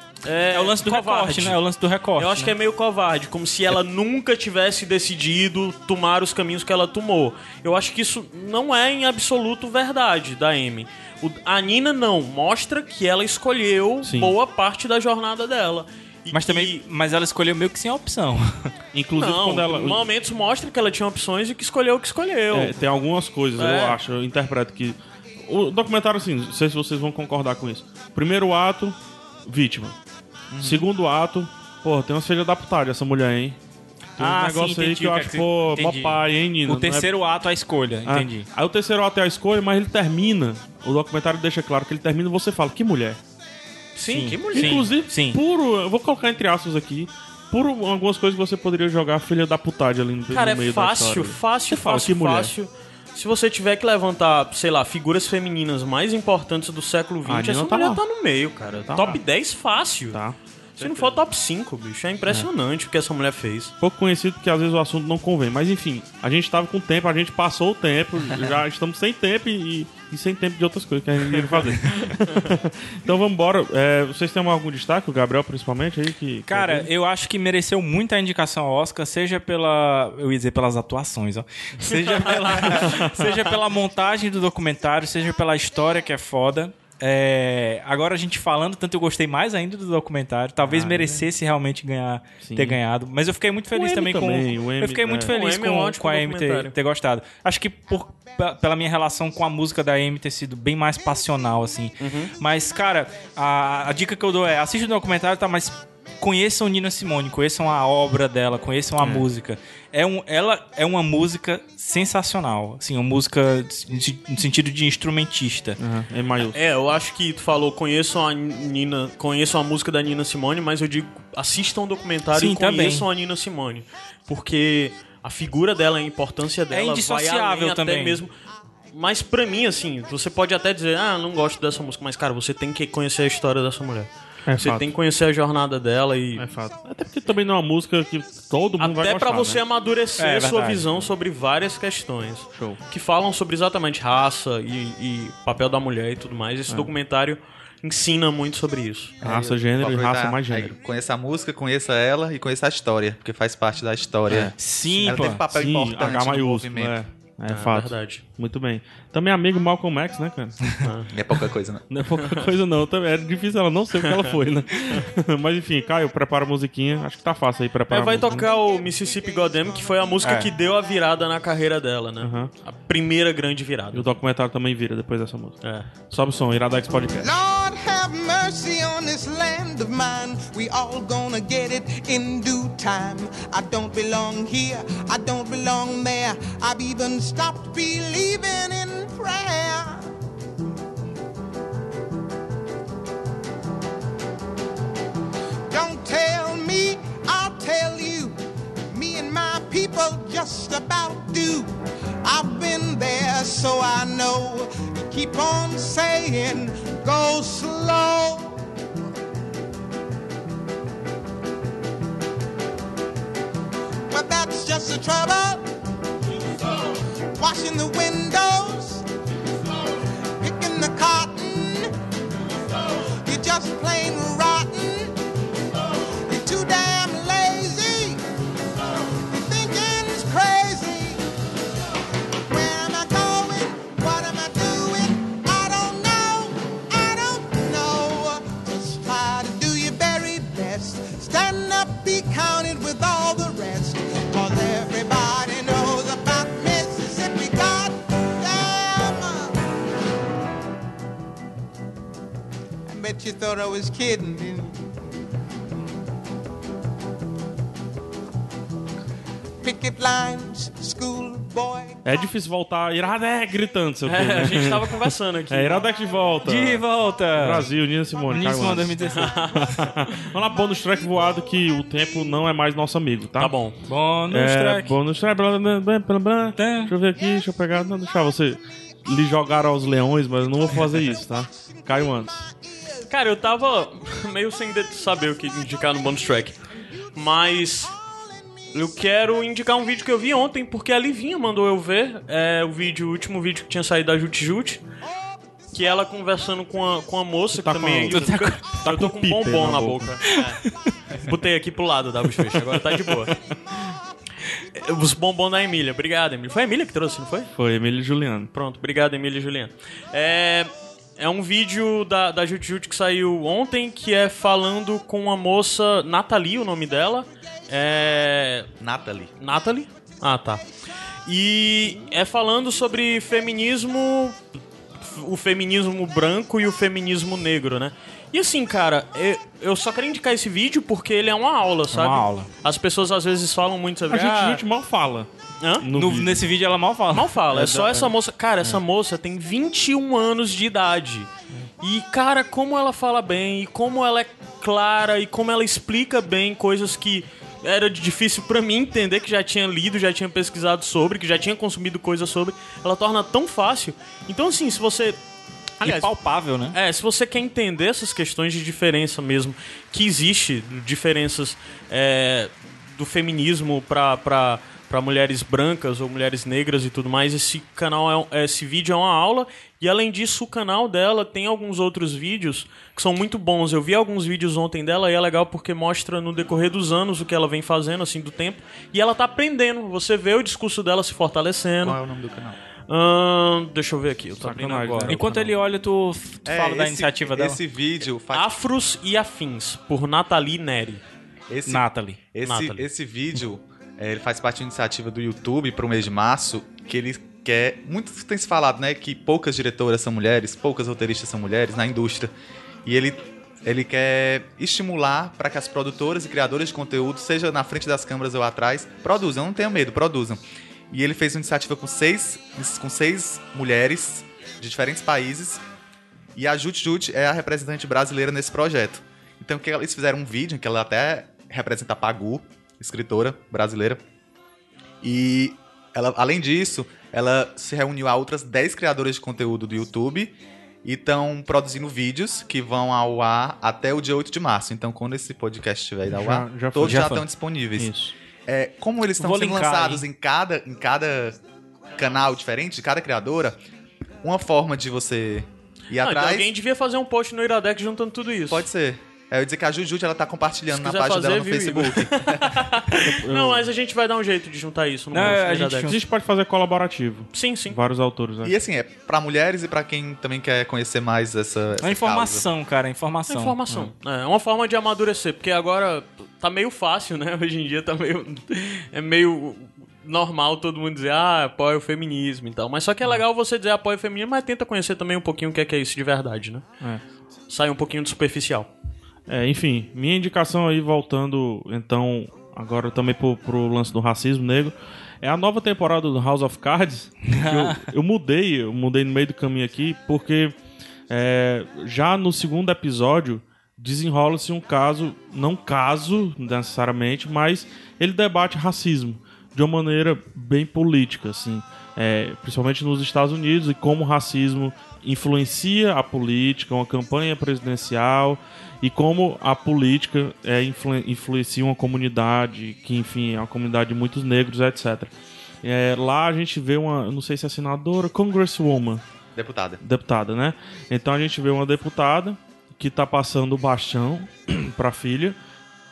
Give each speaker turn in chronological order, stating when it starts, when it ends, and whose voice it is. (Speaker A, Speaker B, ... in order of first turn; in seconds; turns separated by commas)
Speaker A: 0.2-1.6, Speaker B: 0.5-2.5, Speaker A: 2.2-16.8, Speaker C: 14.0-14.3, Speaker B: 16.3-18.7, Speaker C: 18.9-20.1, Speaker A: 19.2-22.8, Speaker C: 22.5-30.0, Speaker A: 23.6-24.0, Speaker D: 30.5-30.9, Speaker C: 30.6-33.6, Speaker C: 34.2-37.1, Speaker B: 34.2-38.5, Speaker C: 38.1-43.2, Speaker A: 44.0-44.9, Speaker B: 44.1-45.4, Speaker C: 44.5-52.5, Speaker A: 50.3-60.2, Speaker C: 57.2-58.0, Speaker C: 58.8-59.2, Speaker C: 60.1-60.4, Speaker A: 60.8-63.7, Speaker C: 63.8-76.9, Speaker B: 76.5-115.8, Speaker A: 81.9-82.7, Speaker C: 82.7-83.2, Speaker C: 90.7-91.3, Speaker C: 92.4-92.8, Speaker C: 93.7-95.3, Speaker A: 95.3-96.7, Speaker A: 102.0-102.3, Speaker C: 109.0-109.3, Speaker C: 115.8-116.6, Speaker A: 116.5-128.3, Speaker B: 122.3-123.1, Speaker B: 126.7-128.2, Speaker A: 128.9-136.5, Speaker C: 134.5-134.9, Speaker C: 136.4-139.6, Speaker A: 138.8-149.2, Speaker B: 140.2-140.9, Speaker C: 142.6-142.8, Speaker C: 149.2-150.8, Speaker D: 149.2-157.0, Speaker C: 154.3-160.8, Speaker B: 154.6-155.4, Speaker A: 157.5-158.2, Speaker A: 160.8-161.1, Speaker D: 161.1-161.8, Speaker C: 161.9-168.5, Speaker A: 162.2-162.5, Speaker A: 164.0-164.3, Speaker A: 167.9-174.1, Speaker B: 170.2-170.5, Speaker C: 172.2-172.5, Speaker C: 173.9-177.3, Speaker A: 175.6-175.9, Speaker E: 177.2-190.1, Speaker E: 195.7-198.4, Speaker E: 198.9-208.6, Speaker E: 214.1-215.7, Speaker E: 217.3-219.1, Speaker E: 220.4-221.9, Speaker E: 222.7-225.2, Speaker E: 225.9-228.2, Speaker E: 229.0-231.2, Speaker E: 232.5-249.6, Speaker E: 252.9-254.8, Speaker E: 259.6-262.0, Speaker C: 262.0-273.6, Speaker A: 264.1-265.9, Speaker B: 266.4-267.7, Speaker B: 268.3-269.4, Speaker A: 269.1-270.3, Speaker A: 273.4-273.8, Speaker B: 273.9-275.0, Speaker C: 274.3-282.4, Speaker B: 276.6-276.9, Speaker A: 283.1-286.6, Speaker A: 287.1-287.9, Speaker A: 288.7-294.8, Speaker A: 295.7-300.6, Speaker C: 297.6-300.2, Speaker B: 298.1-298.7, Speaker B: 300.3-300.8, Speaker A: 301.2-303.4, Speaker A: 304.7-307.5, Speaker C: 307.6-308.5, Speaker A: 308.5-318.7, Speaker D: 318.8-319.3, Speaker A: 319.4-320.6, Speaker A: 321.3-324.4, Speaker A: 325.0-334.6, Speaker B: 331.9-332.5, Speaker C: 334.1-335.3, Speaker A: 335.6-335.9, Speaker C: 335.8-336.5, Speaker B: 335.9-337.3, Speaker A: 337.1-341.3, Speaker C: 337.5-338.8, Speaker A: 341.8-355.2, Speaker A: 355.8-356.1, Speaker B: 355.8-356.8, Speaker A: 356.7-382.0, Speaker D: 381.8-382.6, Speaker A: 382.9-385.3, Speaker C: 384.4-385.4, Speaker B: 384.8-387.6, Speaker D: 386.5-388.5, Speaker A: 388.3-391.0, Speaker D: 391.5-402.3, Speaker B: 391.7-392.2, Speaker A: 392.4-392.9, Speaker D: 402.9-410.4, Speaker D: 410.9-415.6, Speaker D: 416.4-424.0, Speaker D: 425.0-437.9, Speaker C: 436.1-437.3, Speaker B: 436.8-437.2, Speaker C: 437.8-438.1, Speaker D: 438.5-441.4, Speaker B: 439.2-440.1, Speaker D: 441.9-443.6, Speaker D: 444.2-446.5, Speaker A: 446.0-448.7, Speaker D: 448.5-452.7, Speaker A: 450.7-455.9, Speaker C: 453.0-453.6, Speaker B: 455.1-456.0, Speaker C: 455.8-458.5, Speaker A: 457.3-457.8, Speaker D: 458.4-462.5, Speaker B: 461.8-463.9, Speaker A: 463.3-476.7, Speaker A: 477.5-478.7, Speaker C: 479.3-490.6, Speaker B: 487.3-487.9, Speaker C: 491.1-519.0, Speaker D: 519.4-519.8, Speaker C: 519.8-525.4